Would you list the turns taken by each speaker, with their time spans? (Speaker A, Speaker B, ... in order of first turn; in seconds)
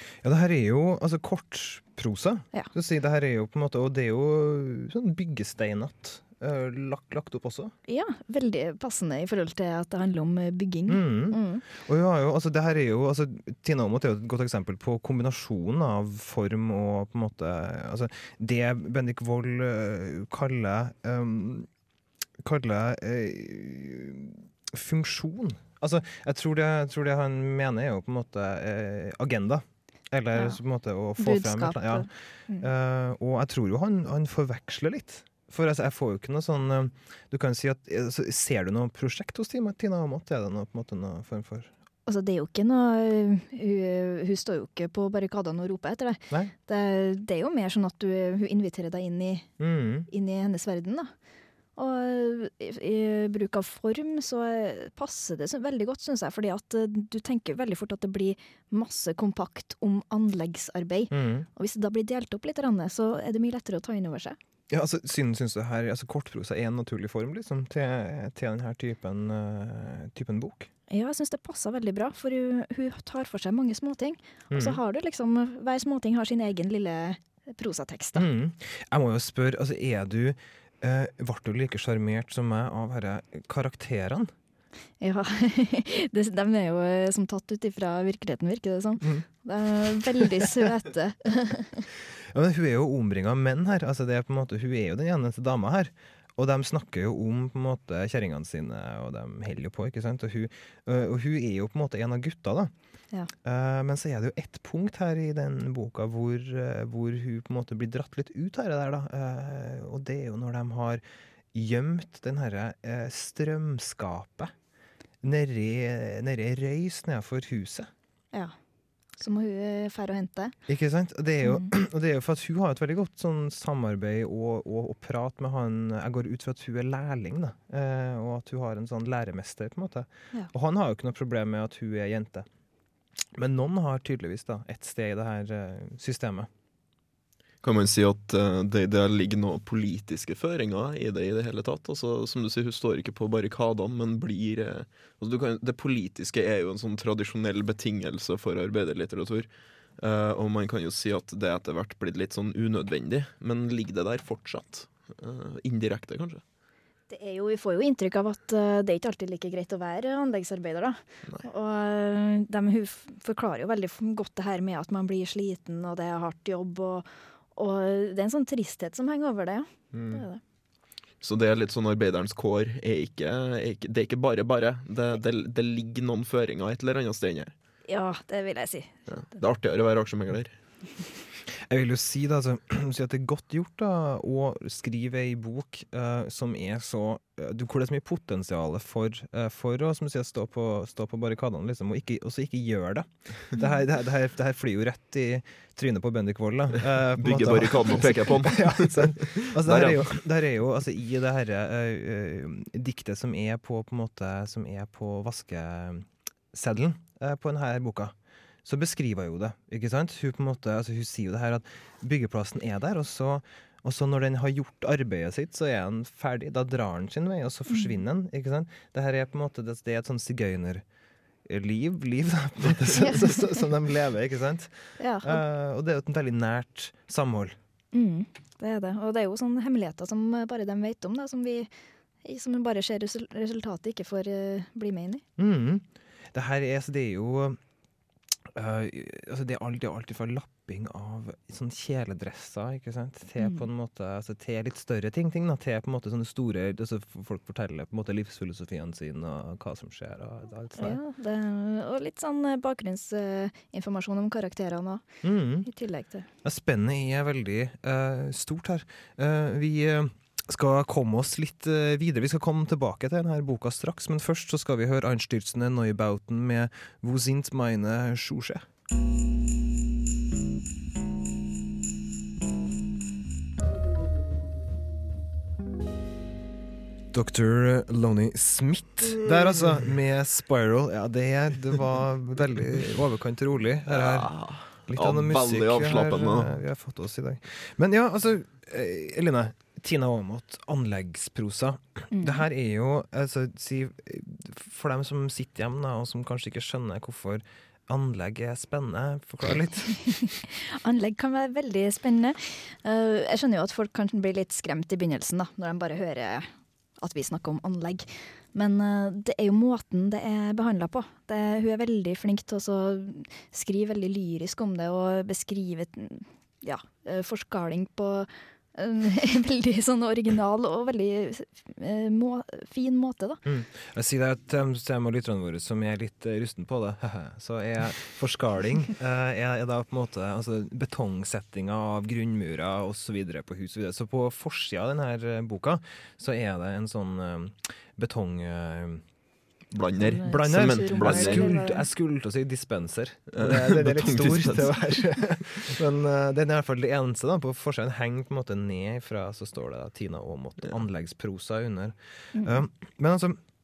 Speaker A: 0.2-7.7, 10.9-21.7, 22.4-32.1, 32.6-41.7, 49.6-50.1, 61.1-61.5, 64.7-70.7, 74.5-74.8, 78.2-84.3, 89.0-89.3, 92.3-102.7, 103.4-114.5, 115.2-117.9, 120.7-132.5, 133.3-136.5, 181.7-220.8, 221.5-227.6, 235.4-237.6, 238.5-251.0, 255.2-255.7, 256.4-268.7, 277.1-284.3, 284.9-300.0, 323.4-339.0, 340.1-353.4
Speaker B: 7.9-11.7, 31.2-32.7, 42.1-49.5, 50.1-51.1, 51.8-64.4, 70.9-78.3, 85.0-91.8, 119.2-120.5, 121.4-121.7, 157.1-170.4, 177.9-178.9, 217.7-218.0, 222.9-223.3, 225.0-225.4, 227.9-231.7, 232.2-235.2, 243.4-243.7, 250.8-255.0, 255.6-256.3, 292.1-292.4, 300.1-323.4, 340.0-341.9, 352.4-352.6
Speaker C: 137.6-149.5, 150.0-156.4, 169.9-170.2, 171.2-177.5, 179.1-180.6, 197.2-200.1, 283.9-286.6, 339.7-341.5, 343.3-344.8